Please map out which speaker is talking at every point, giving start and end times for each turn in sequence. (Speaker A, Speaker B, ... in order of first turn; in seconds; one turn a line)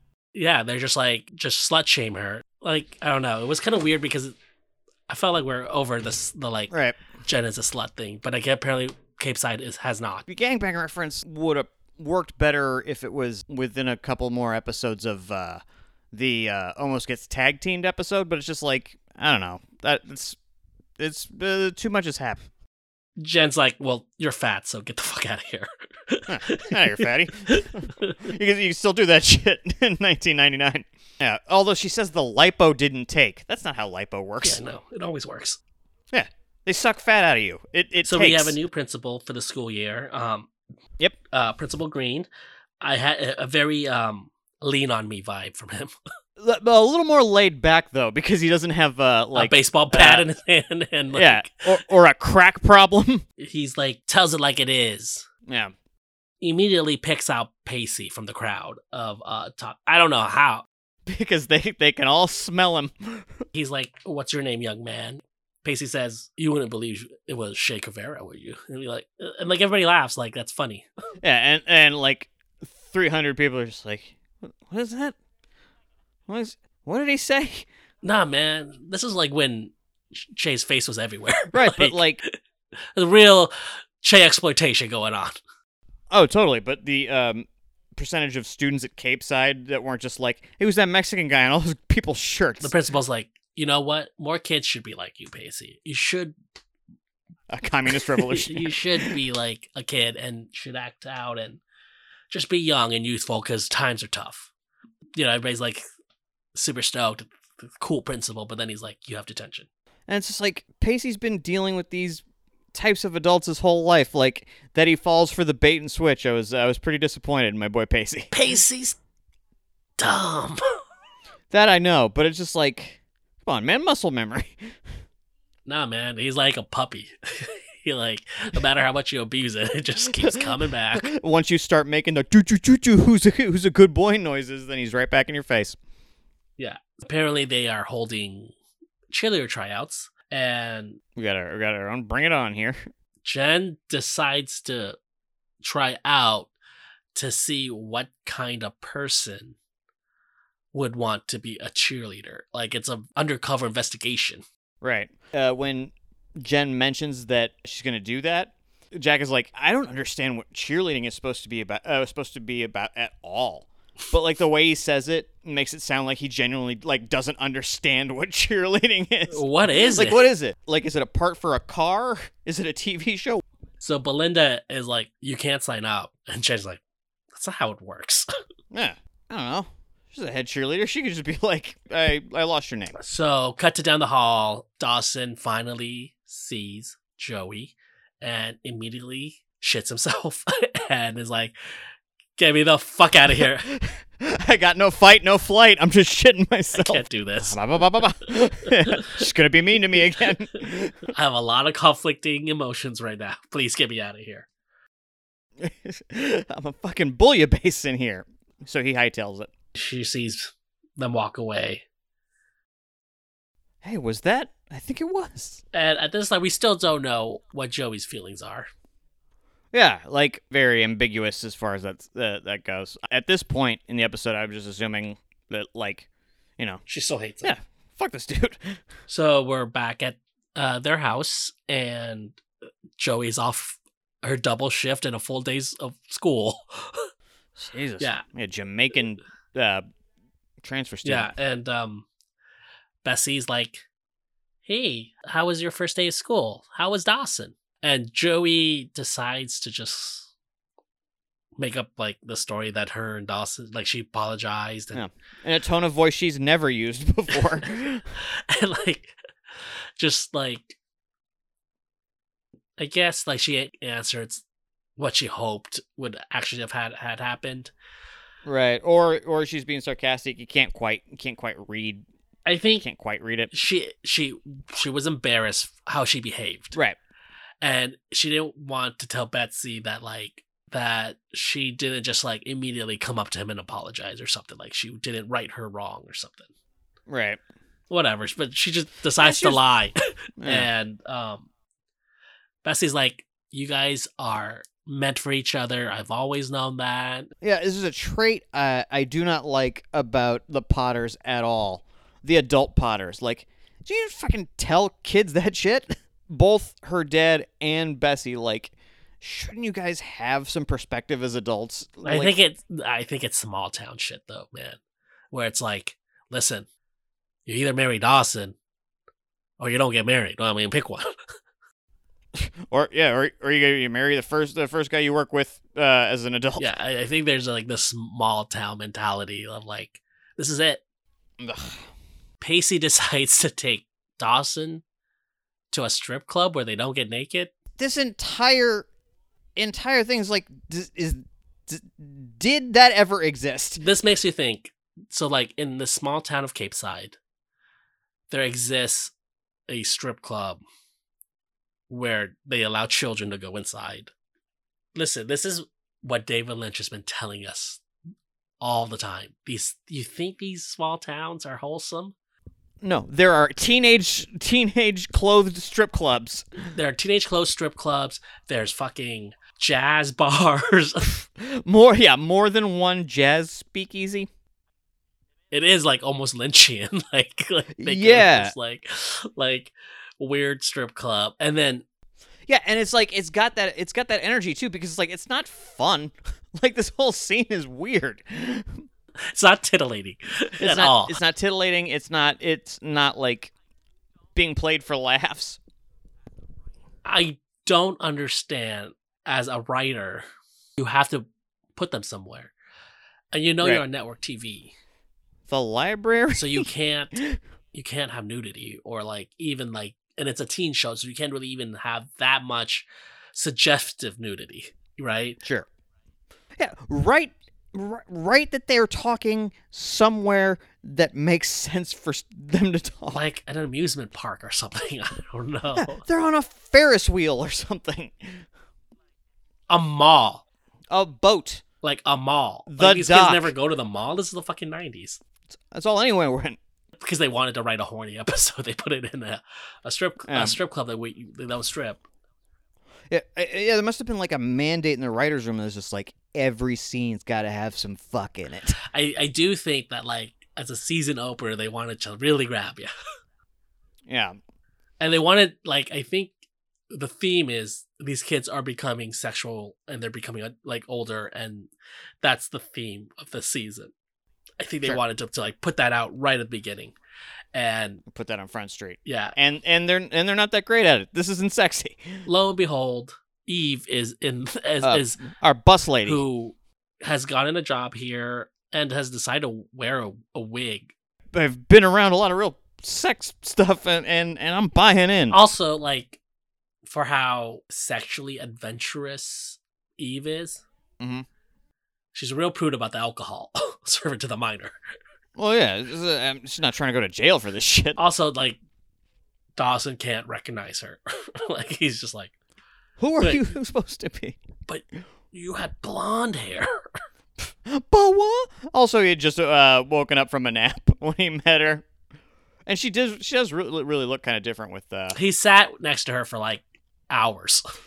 Speaker A: 0.3-4.3
Speaker A: 5.1-6.7
Speaker B: 6.7-7.0
Speaker A: 7.2-10.2
Speaker B: 10.3-15.6
Speaker B: 16.1-20.4
Speaker B: 21.0-22.4
Speaker A: 23.2-28.2
Speaker B: 26.3-34.6
Speaker A: 34.4-35.6
Speaker B: 36.1-38.6
Speaker A: 38.0-40.5
Speaker A: 41.3-42.3
Speaker A: 42.8-45.9
Speaker B: 46.4-50.3
Speaker A: 49.3-51.8
Speaker B: 51.1-53.2
Speaker A: 53.4-55.3
Speaker B: 55.5-55.7
Speaker A: 56.4-60.7
Speaker B: 61.1-63.4
Speaker A: 63.5-70.9
Speaker B: 71.2-75.2
Speaker B: 76.3-77.7
Speaker A: 78.0-82.4
Speaker B: 81.5-82.2
Speaker A: 83.0-85.4
Speaker B: 86.1-92.7
Speaker A: 92.6-96.4
Speaker B: 97.5-99.2
Speaker A: 98.1-101.6
Speaker A: 102.3-104.5
Speaker A: 105.2-105.8
Speaker A: 106.5-109.7
Speaker B: 110.1-118.3
Speaker A: 118.3-119.0
Speaker A: 120.0-120.6
Speaker B: 121.5-124.8
Speaker A: 125.7-131.1
Speaker B: 130.2-135.8
Speaker A: 136.6-138.5
Speaker A: 139.1-141.0
Speaker B: 141.2-142.8
Speaker A: 143.2-145.0
Speaker A: 145.6-146.5
Speaker A: 147.1-149.6
Speaker A: 150.7-154.4
Speaker B: 154.8-173.4
Speaker A: 169.3-170.2
Speaker A: 173.8-176.8
Speaker A: 177.3-178.3
Speaker B: 178.7-183.0
Speaker A: 182.9-191.6
Speaker A: 192.4-193.7
Speaker B: 193.3-201.1
Speaker A: 196.7-197.6
Speaker A: 198.7-199.2
Speaker A: 201.1-204.5
Speaker B: 205.6-209.5
Speaker A: 209.8-211.8
Speaker B: 213.8-215.6
Speaker A: 215.7-218.7
Speaker B: 219.7-226.1
Speaker A: 226.9-227.5
Speaker B: 227.4-228.8
Speaker A: 229.1-232.4
Speaker A: 233.0-237.1
Speaker B: 237.6-239.8
Speaker B: 240.6-241.3
Speaker A: 241.0-242.1
Speaker A: 243.0-243.8
Speaker A: 244.6-250.3
Speaker A: 251.6-255.1
Speaker B: 254.9-258.1
Speaker A: 258.2-259.2
Speaker A: 260.0-260.8
Speaker A: 262.8-264.4
Speaker A: 265.0-267.7
Speaker B: 268.4-272.1
Speaker A: 272.5-272.9
Speaker B: 272.8-273.5
Speaker A: 273.5-276.8
Speaker A: 277.6-286.5
Speaker B: 287.1-287.4
Speaker A: 287.9-291.5
Speaker B: 289.2-289.6
Speaker B: 290.4-290.7
Speaker A: 292.6-297.3
Speaker B: 297.4-312.3
Speaker A: 312.0-314.8
Speaker A: 315.3-316.7
Speaker A: 317.5-318.6
Speaker A: 319.6-321.1
Speaker B: 322.3-326.7
Speaker A: 326.6-330.8
Speaker B: 331.4-331.9
Speaker A: 332.4-334.8
Speaker A: 335.7-337.5
Speaker B: 337.8-338.9
Speaker B: 339.6-343.8
Speaker A: 343.8-347.2
Speaker A: 348.3-349.1
Speaker A: 349.7-350.6
Speaker A: 351.9-354.1
Speaker A: 354.9-357.8
Speaker A: 358.6-362.1
Speaker B: 362.8-366.4
Speaker A: 366.7-371.2
Speaker B: 371.4-374.3
Speaker A: 375.5-381.9
Speaker B: 377.8-378.5
Speaker B: 382.5-388.8
Speaker A: 389.3-391.2
Speaker B: 390.6-393.5
Speaker B: 394.4-395.6
Speaker A: 397.1-400.2
Speaker A: 400.8-402.5
Speaker A: 403.3-404.7
Speaker B: 405.5-407.4
Speaker A: 406.3-407.2
Speaker A: 407.7-415.4
Speaker B: 416.6-423.2
Speaker A: 423.1-426.0
Speaker B: 425.7-428.4
Speaker A: 429.7-430.4
Speaker B: 430.9-431.6
Speaker A: 431.8-435.2
Speaker B: 432.7-433.5
Speaker B: 435.7-436.6
Speaker A: 437.0-442.0
Speaker B: 440.3-440.6
Speaker B: 443.1-448.8
Speaker A: 448.8-452.9
Speaker B: 454.1-454.4
Speaker A: 455.0-456.3
Speaker A: 456.9-461.7
Speaker A: 462.2-463.9
Speaker A: 464.6-466.9
Speaker A: 467.5-468.0
Speaker B: 468.1-472.2
Speaker A: 469.1-469.4
Speaker A: 472.3-475.2
Speaker B: 474.8-476.2
Speaker A: 476.1-480.9
Speaker B: 481.3-485.4
Speaker A: 485.3-486.2
Speaker A: 486.9-490.6
Speaker B: 491.0-491.3
Speaker A: 492.1-494.8
Speaker B: 495.4-498.0
Speaker A: 498.0-498.6
Speaker A: 499.6-502.3
Speaker B: 503.0-504.4
Speaker A: 504.7-506.8
Speaker B: 507.6-511.9
Speaker B: 512.7-515.2
Speaker A: 515.1-517.6